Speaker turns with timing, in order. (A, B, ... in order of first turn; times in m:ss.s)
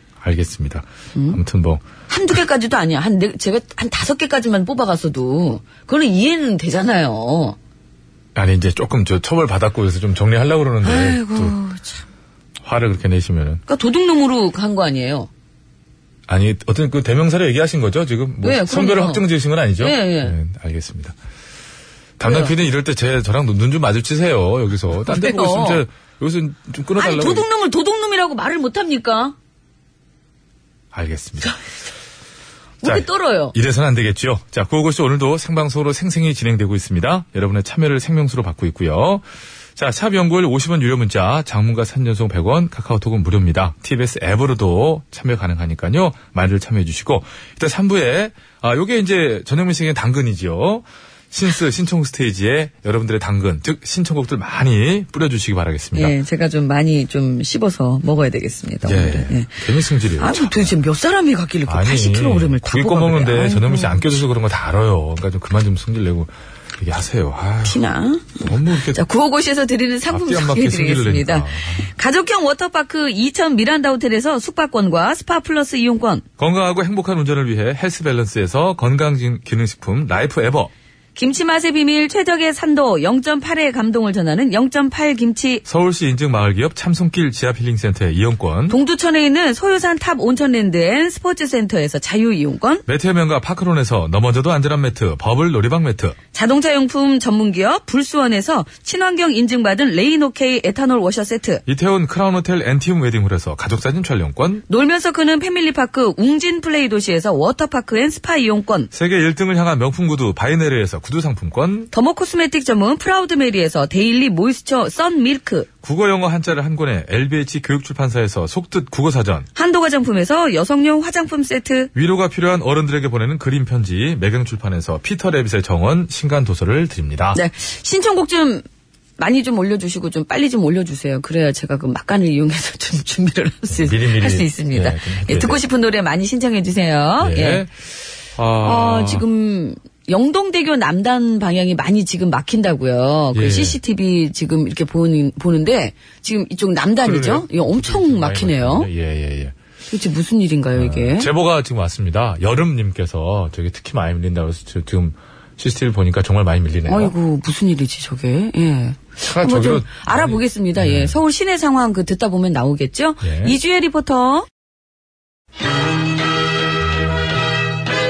0:00.2-0:01.8 A
0:01.2-0:01.4 B
0:02.1-0:07.6 B
0:08.4-0:11.6 A
0:10.8-0:12.0 B
0:12.6-0:13.6 A
0:13.7-0:15.3 B
0:16.3-0:21.2 A
0:18.4-0:19.2 B
0:19.8-0:20.4 B
0:22.2-0:27.5 A
0:22.2-0:22.5 B
0:25.0-0:25.8 B
0:27.0-0:29.4 B
0:30.9-0:31.5 A
0:32.8-0:33.6 B
0:32.8-0:39.2 A
0:39.8-0:56.2 A
0:56.0-0:59.6 B
0:58.8-1:00.8 A
1:00.2-1:04.2 B
1:01.7-1:07.8 A
1:07.6-1:16.2 B
1:08.4-1:09.0 A
1:10.1-1:11.9 A
1:16.4-1:20.7 A
1:21.2-1:25.6 B
1:25.7-1:28.8 A
1:28.7-1:32.8 B
1:32.9-1:36.2 A
1:36.3-1:41.6 B
1:41.7-1:44.6 A
1:44.7-1:48.9 B
1:48.9-1:51.9 A
1:51.9-1:55.7 B
1:55.8-1:59.5 A
1:59.6-2:01.9 B
2:01.9-2:07.4 A
2:07.4-2:08.6 B
2:09.2-2:17.7 B
2:13.7-2:15.6 A
2:17.2-2:17.7 A
2:18.4-2:19.2 A
2:18.6-2:28.9 B
2:23.3-2:23.8 A
2:27.0-2:29.6 A
2:29.9-2:31.3 B
2:30.8-2:37.1 A
2:36.9-2:44.5 B
2:39.3-2:41.2 A
2:43.2-2:43.6 A